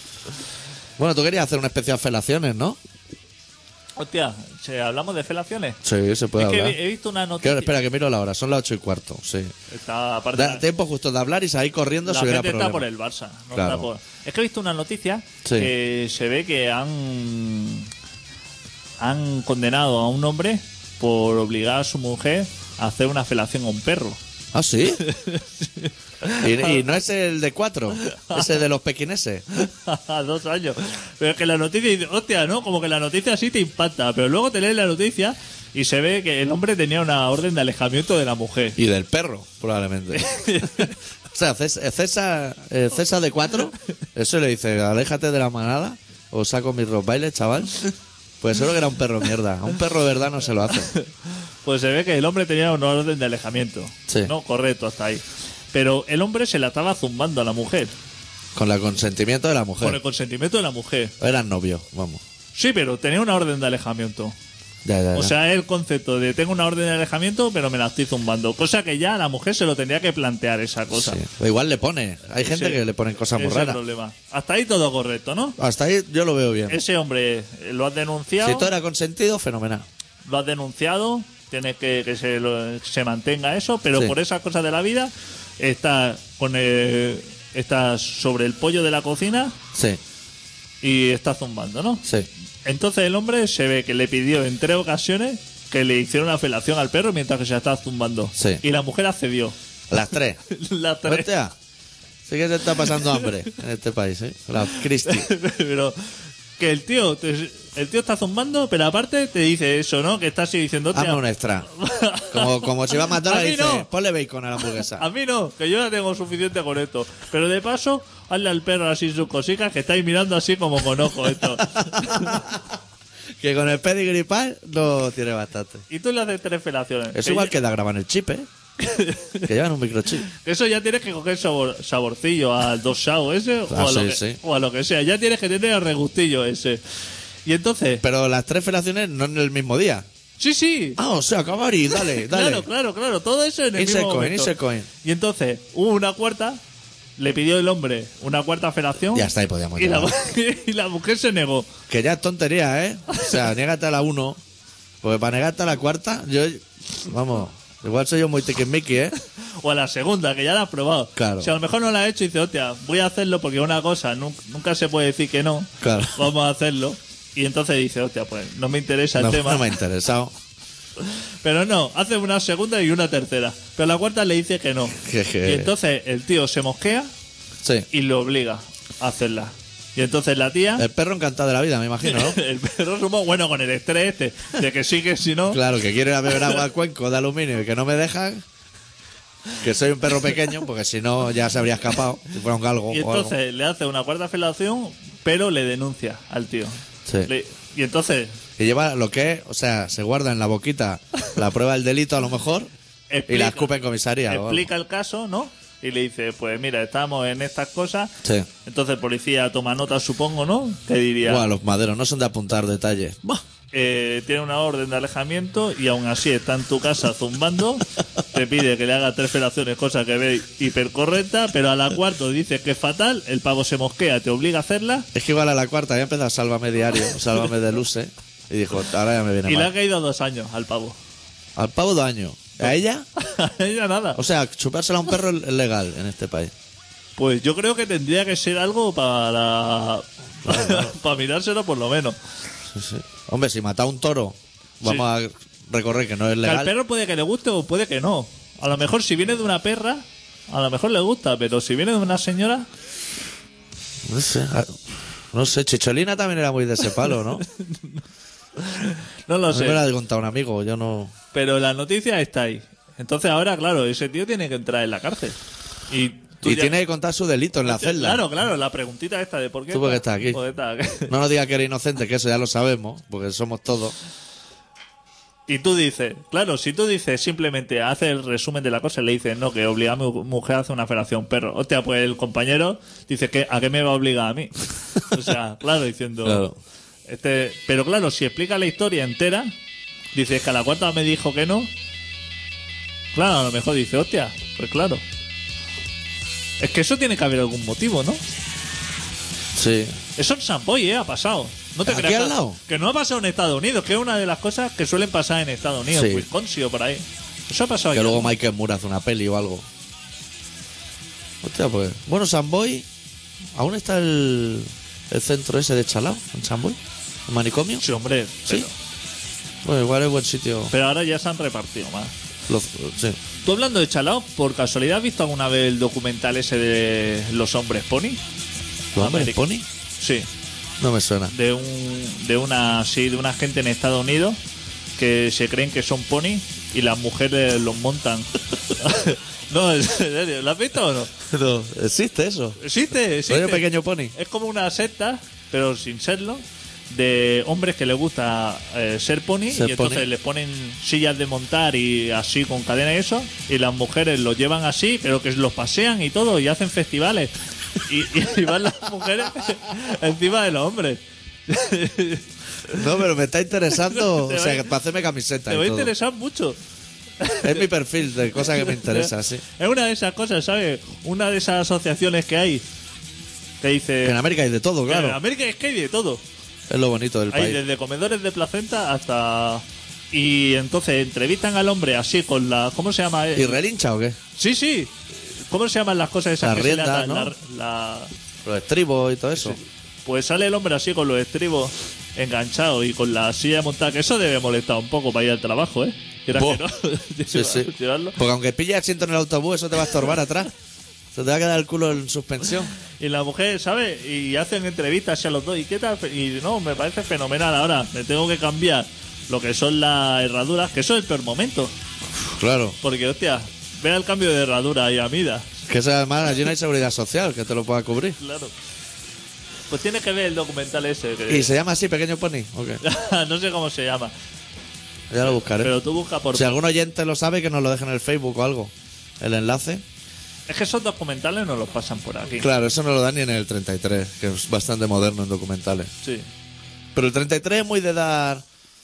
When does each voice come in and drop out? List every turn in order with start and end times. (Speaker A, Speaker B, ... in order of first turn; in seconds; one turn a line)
Speaker A: 1.0-2.8
Speaker B: 4.0-5.8
Speaker A: 5.8-6.8
Speaker B: 6.4-7.7
Speaker A: 7.4-9.5
Speaker B: 9.7-10.6
Speaker A: 10.3-12.8
Speaker B: 12.1-17.9
Speaker A: 13.5-13.9
Speaker A: 15.4-15.7
Speaker B: 19.0-24.2
Speaker A: 24.5-25.0
Speaker B: 25.0-26.8
Speaker A: 26.4-29.4
Speaker B: 28.1-28.5
Speaker B: 29.7-38.8
Speaker A: 38.8-47.9
Speaker B: 40.1-40.9
Speaker A: 48.4-50.9
Speaker B: 51.6-57.9
Speaker A: 54.1-54.3
Speaker A: 58.5-60.0
Speaker B: 59.8-61.1
Speaker A: 61.2-62.2
Speaker B: 62.5-64.4
Speaker A: 64.8-65.3
Speaker B: 65.1-71.2
Speaker A: 70.9-73.8
Speaker B: 72.4-75.6
Speaker A: 75.6-76.8
Speaker B: 76.7-78.7
Speaker A: 78.4-79.9
Speaker B: 80.2-89.6
Speaker A: 89.7-90.0
Speaker B: 90.8-92.0
Speaker B: 92.6-99.6
Speaker A: 98.4-98.6
Speaker A: 99.9-100.4
Speaker B: 100.5-101.3
Speaker A: 101.0-101.5
Speaker A: 102.3-105.3
Speaker B: 103.0-103.3
Speaker B: 105.0-106.0
Speaker B: 106.6-113.9
Speaker A: 110.9-111.7
Speaker A: 112.3-115.1
Speaker B: 115.0-122.5
Speaker A: 121.6-122.6
Speaker A: 123.4-125.8
Speaker B: 125.9-127.5
Speaker A: 127.1-128.5
Speaker B: 128.8-129.5
Speaker A: 129.4-130.3
Speaker B: 130.3-136.8
Speaker A: 133.7-134.4
Speaker B: 137.4-138.0
Speaker A: 138.0-140.1
Speaker B: 140.4-141.0
Speaker A: 141.0-142.7
Speaker B: 141.9-146.6
Speaker A: 143.8-144.9
Speaker B: 147.2-151.7
Speaker A: 149.1-150.1
Speaker A: 151.9-154.4
Speaker A: 155.0-159.1
Speaker B: 159.6-169.7
Speaker A: 161.1-161.5
Speaker A: 165.8-166.2
Speaker A: 169.1-170.3
Speaker B: 171.4-177.1
Speaker A: 175.0-175.7
Speaker B: 177.9-180.9
Speaker A: 180.8-182.4
Speaker B: 182.1-185.6
Speaker A: 185.5-188.4
Speaker A: 189.6-193.3
Speaker B: 192.9-198.4
Speaker A: 198.6-202.7
Speaker B: 203.1-203.7
Speaker A: 203.3-204.7
Speaker B: 204.3-211.5
Speaker A: 211.2-213.4
Speaker B: 213.7-225.1
Speaker A: 225.1-229.7
Speaker B: 229.4-231.0
Speaker A: 231.6-233.1
Speaker B: 232.6-234.2
Speaker A: 234.1-236.5
Speaker B: 237.2-242.2
Speaker A: 240.4-240.9
Speaker A: 242.7-246.7
Speaker B: 246.4-252.7
Speaker A: 254.1-254.8
Speaker A: 255.3-257.4
Speaker B: 257.5-258.0
Speaker B: 258.6-259.8
Speaker A: 259.5-261.1
Speaker B: 261.3-265.4
Speaker B: 265.9-266.8
Speaker A: 266.4-268.2
Speaker B: 267.6-271.1
Speaker A: 269.7-270.4
Speaker A: 271.1-273.9
Speaker B: 275.5-286.5
Speaker A: 286.2-286.6
Speaker B: 287.1-289.6
Speaker B: 290.1-291.7
Speaker B: 293.1-295.0
Speaker B: 296.6-298.2
Speaker A: 299.5-300.0
Speaker B: 300.2-308.3
Speaker A: 301.8-302.6
Speaker A: 305.9-306.3
Speaker A: 307.9-309.7
Speaker A: 311.4-312.9
Speaker A: 313.6-317.8
Speaker B: 317.8-318.7
Speaker A: 319.6-320.7
Speaker B: 320.7-322.1
Speaker A: 322.5-323.2
Speaker B: 323.4-328.2
Speaker A: 328.9-329.7
Speaker B: 329.0-329.4
Speaker B: 330.0-330.3
Speaker A: 330.8-331.3
Speaker B: 331.3-334.4
Speaker B: 335.0-341.1
Speaker A: 341.3-342.6
Speaker B: 342.6-362.8
Speaker A: 343.3-344.1
Speaker A: 349.5-350.1
Speaker A: 362.7-365.9
Speaker B: 363.9-364.6
Speaker B: 365.5-366.6
Speaker B: 367.2-367.7
Speaker A: 367.4-369.4
Speaker B: 368.4-372.6
Speaker B: 373.6-374.2
Speaker A: 374.0-375.2
Speaker B: 374.9-376.2
Speaker A: 376.7-377.6
Speaker B: 377.3-383.6
Speaker A: 383.3-384.2
Speaker B: 384.4-388.1
Speaker A: 386.4-387.3
Speaker A: 388.4-389.6
Speaker B: 389.4-398.2
Speaker A: 396.3-396.6
Speaker A: 397.3-400.5
Speaker A: 401.1-402.7
Speaker B: 403.0-411.7
Speaker A: 412.2-412.8
Speaker B: 412.8-415.5
Speaker A: 415.7-418.2
Speaker B: 418.2-418.5
Speaker B: 419.7-421.5
Speaker A: 421.3-422.8
Speaker B: 422.8-424.1
Speaker A: 425.1-425.8
Speaker B: 425.5-426.6
Speaker A: 426.3-429.8
Speaker B: 430.5-432.5
Speaker A: 432.4-435.9
Speaker A: 436.9-438.4